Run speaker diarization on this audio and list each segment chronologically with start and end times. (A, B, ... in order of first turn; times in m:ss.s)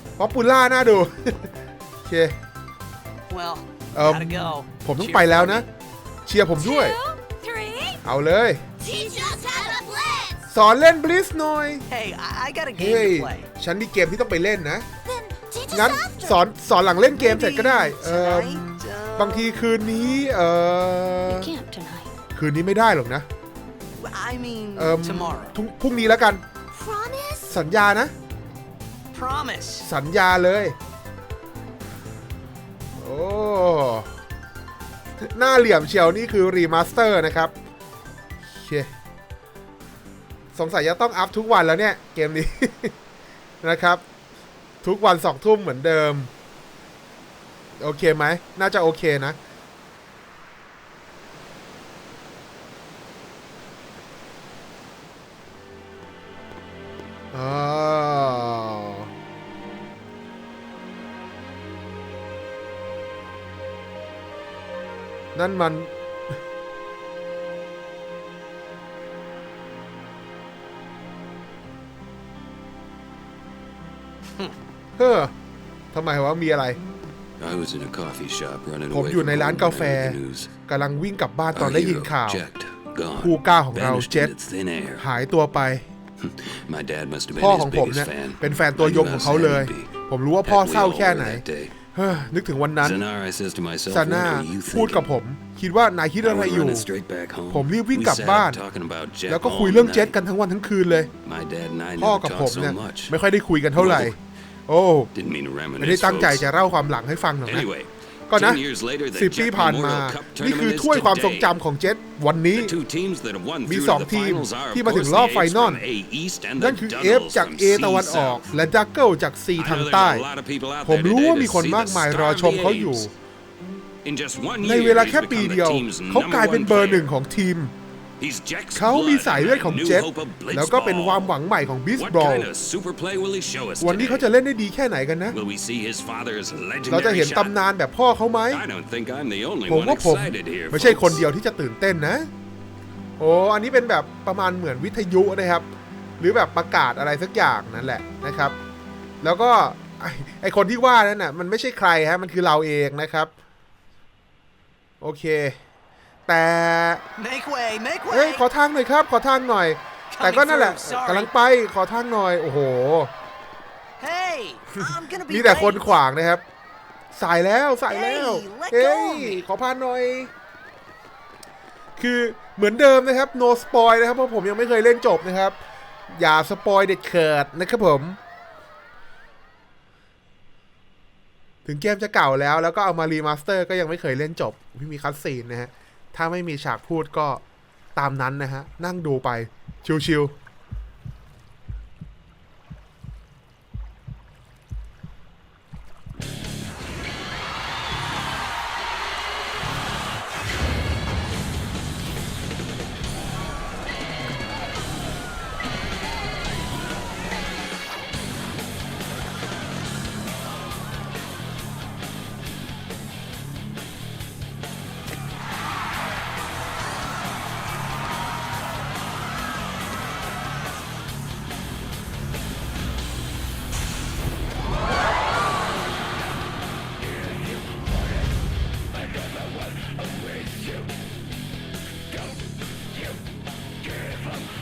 0:00.2-0:01.5 A
0:02.0-0:02.4 A
0:03.3-0:05.6 B
0:03.9-0:05.6 A
0:06.2-0:07.0 A
0:06.6-0:08.0 C
0:08.0-0:08.6 A
0:08.8-0:10.4 C
0:10.5-0:11.8 A
0:11.9-0:13.5 B
0:12.8-0:14.9 A
0:15.0-0:16.4 C
0:15.7-0:21.5 A
0:17.0-0:19.7 B
0:21.3-0:22.1 C
0:22.4-0:23.3 A
0:24.0-0:25.6 B
0:24.8-0:26.4 A
0:26.7-0:27.5 C
0:27.5-0:28.1 A
0:29.1-0:29.9 B
0:29.8-0:30.8 A
0:33.0-0:34.1 A
0:35.2-0:37.5 A
0:38.5-0:38.9 A
0:40.5-0:42.9 A
0:43.6-0:44.0 A
0:44.8-0:46.3 A
0:47.8-0:49.4 A
0:57.3-0:59.1 A
1:05.3-1:05.9 A
1:15.0-1:15.3 A
1:15.9-1:16.8 A
1:17.4-1:20.5 D
1:18.9-1:22.4 A
1:21.5-1:25.0 D
1:23.2-1:24.3 A
1:25.0-1:25.8 A
1:26.2-1:29.9 D
1:27.4-1:31.4 A
1:30.4-1:31.7 D
1:31.9-1:33.0 A
1:32.8-1:35.0 D
1:33.9-1:36.9 A
1:36.2-1:40.1 D
1:37.5-1:38.6 A
1:39.3-1:41.1 A
1:41.2-1:43.1 D
1:42.0-1:44.1 A
1:43.7-1:44.2 D
1:44.7-1:45.1 A
1:45.1-1:46.4 D
1:45.8-1:47.7 A
1:47.5-1:51.5 D
1:48.3-1:48.6 A
1:49.1-1:52.8 A
1:52.5-1:58.6 D
1:53.6-1:55.8 A
1:56.6-2:00.2 A
1:59.6-2:03.1 D
2:00.8-2:03.1 A
2:04.0-2:07.1 D
2:04.6-2:07.7 A
2:08.2-2:11.3 D
2:08.7-2:12.5 A
2:11.9-2:14.2 D
2:13.8-2:15.4 A
2:15.3-2:17.5 D
2:16.9-2:18.6 A
2:18.5-2:21.2 D
2:19.7-2:22.3 A
2:23.2-2:25.7 A
2:26.2-2:28.6 A
2:29.2-2:33.3 A
2:35.0-2:35.6 A
2:36.3-2:37.0 A
2:37.2-2:38.4 B
2:38.1-2:43.1 A
2:40.1-2:41.3 B
2:44.0-2:46.0 B
2:45.3-2:46.4 A
2:47.1-2:50.3 A
2:47.9-2:49.4 B
2:52.0-2:55.6 A
2:56.1-2:58.2 A
3:01.6-3:07.4 A
3:08.0-3:10.3 A